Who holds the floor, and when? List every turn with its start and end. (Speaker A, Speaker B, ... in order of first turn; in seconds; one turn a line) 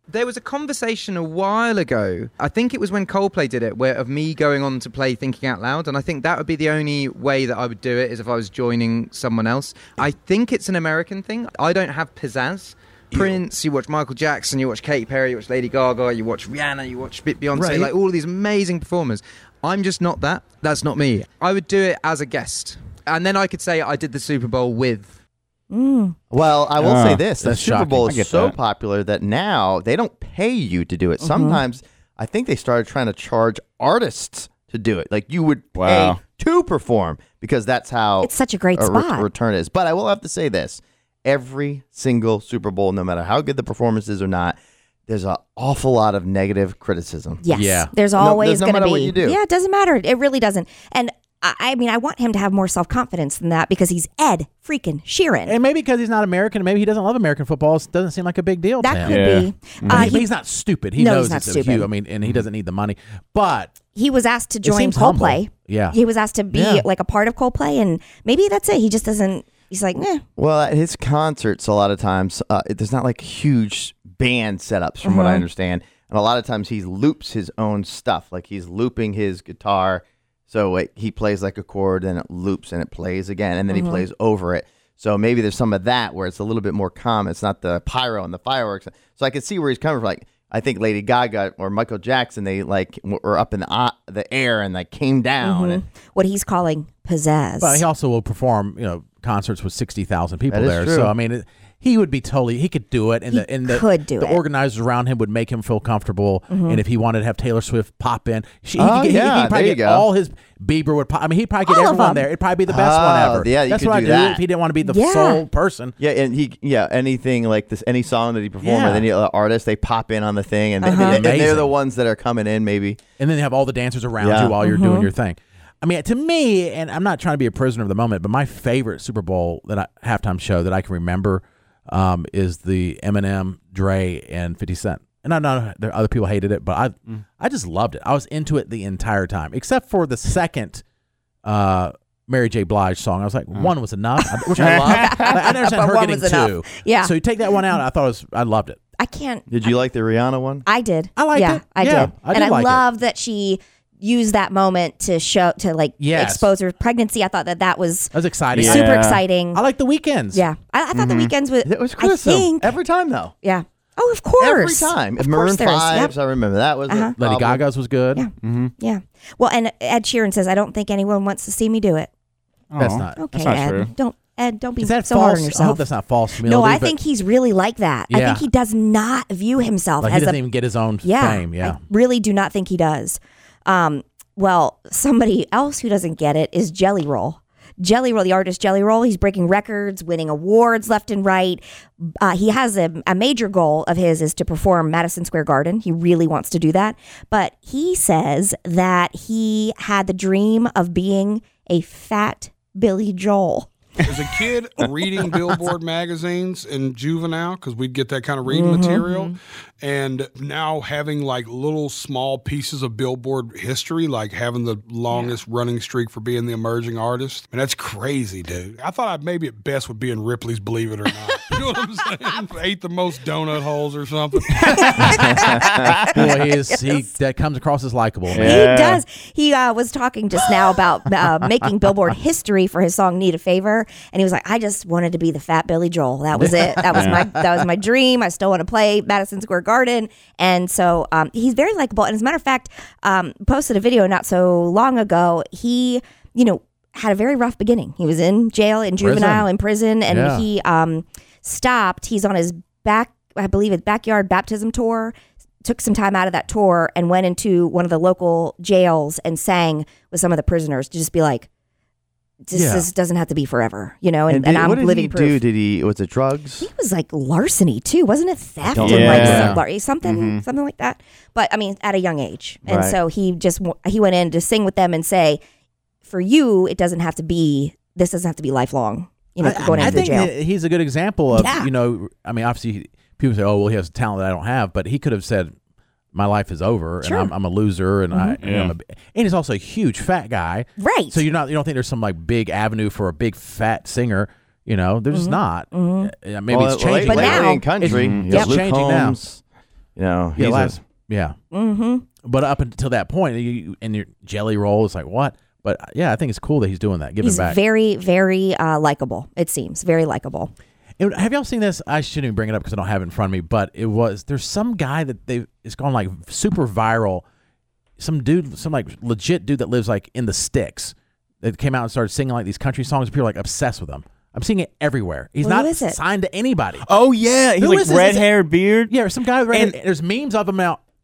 Speaker A: 0.1-25.1
Speaker B: 17.5-17.9
Speaker C: 25.7-26.1
Speaker B: 26.3-44.5
Speaker D: 26.8-27.3
Speaker E: 27.4-28.2
Speaker D: 28.1-28.6
Speaker C: 31.2-31.6
Speaker D: 35.8-36.2
Speaker C: 38.2-39.3
Speaker B: 45.1-47.4
Speaker C: 47.4-55.5
Speaker E: 47.5-47.9
Speaker B: 48.2-49.4
Speaker E: 55.5-59.2
Speaker C: 58.8-60.3
Speaker D: 59.0-60.2
Speaker E: 59.9-63.8
Speaker C: 61.0-61.9
Speaker C: 63.9-70.2
Speaker E: 64.6-66.0
Speaker E: 66.5-66.9
Speaker B: 70.4-95.8
Speaker C: 75.0-75.4
Speaker C: 83.7-84.0
Speaker C: 95.4-97.8
Speaker E: 97.6-116.0
Speaker B: 100.5-101.1
Speaker C: 103.3-104.4
Speaker C: 106.5-106.8
Speaker B: 108.8-110.0
Speaker C: 111.7-112.2
Speaker B: 112.7-114.4
Speaker C: 114.8-115.4
Speaker B: 116.0-123.0
Speaker E: 118.6-119.1
Speaker C: 120.8-121.2
Speaker E: 121.0-121.7
Speaker E: 123.2-140.8
Speaker B: 124.2-124.5
Speaker C: 124.6-125.1
Speaker E: 141.4-148.8
Speaker D: 144.6-145.4
Speaker C: 144.6-147.1
Speaker C: 149.0-149.4
Speaker B: 149.5-150.6
Speaker C: 150.7-159.6
Speaker E: 151.2-152.8
Speaker E: 156.0-156.5
Speaker E: 158.1-158.9
Speaker D: 158.6-159.2
Speaker E: 159.5-160.4
Speaker C: 160.3-162.8
Speaker D: 160.9-161.3
Speaker B: 161.6-163.3
Speaker C: 163.4-166.1
Speaker B: 164.4-167.6
Speaker C: 166.9-167.1
Speaker E: 167.2-168.3
Speaker C: 168.1-172.1
Speaker D: 168.4-168.7
Speaker D: 172.7-173.9
Speaker E: 172.8-173.2
Speaker C: 173.2-175.8
Speaker E: 174.8-177.0
Speaker C: 176.4-180.4
Speaker E: 178.1-178.5
Speaker E: 180.0-181.8
Speaker C: 181.0-203.7
Speaker F: 204.1-225.0
Speaker C: 208.5-209.3
Speaker E: 224.6-228.6
Speaker C: 224.7-227.1
Speaker D: 228.3-229.0
Speaker C: 228.3-261.5
Speaker E: 236.4-237.3
Speaker D: 236.9-237.2
Speaker E: 249.0-249.5
Speaker E: 250.1-250.4
Speaker C: 262.4-265.4
Speaker E: 262.5-262.9
Speaker B: 264.3-266.7
Speaker C: 266.6-275.4
Speaker B: 268.6-269.5
Speaker D: 268.8-269.5
Speaker E: 269.2-269.6
Speaker D: 270.0-270.4
Speaker B: 272.6-273.0
Speaker C: 276.0-280.3
Speaker E: 279.4-285.5
Speaker C: 281.3-281.7
Speaker E: 286.1-299.2
Speaker C: 287.0-287.3
Speaker C: 288.1-288.4
Speaker D: 288.4-288.7
Speaker C: 290.8-291.2
Speaker C: 295.1-296.1
Speaker B: 296.5-299.4
Speaker C: 297.0-297.6
Speaker D: 297.8-298.4
Speaker B: 299.9-300.8
Speaker E: 300.4-301.3
Speaker C: 301.5-302.1
Speaker E: 302.2-307.6
Speaker C: 307.2-310.5
Speaker E: 311.0-317.2
Speaker E: 318.0-326.9
Speaker C: 325.4-326.0
Speaker D: 326.8-328.9
Speaker E: 327.6-328.3
Speaker E: 328.9-330.8
Speaker D: 329.5-329.8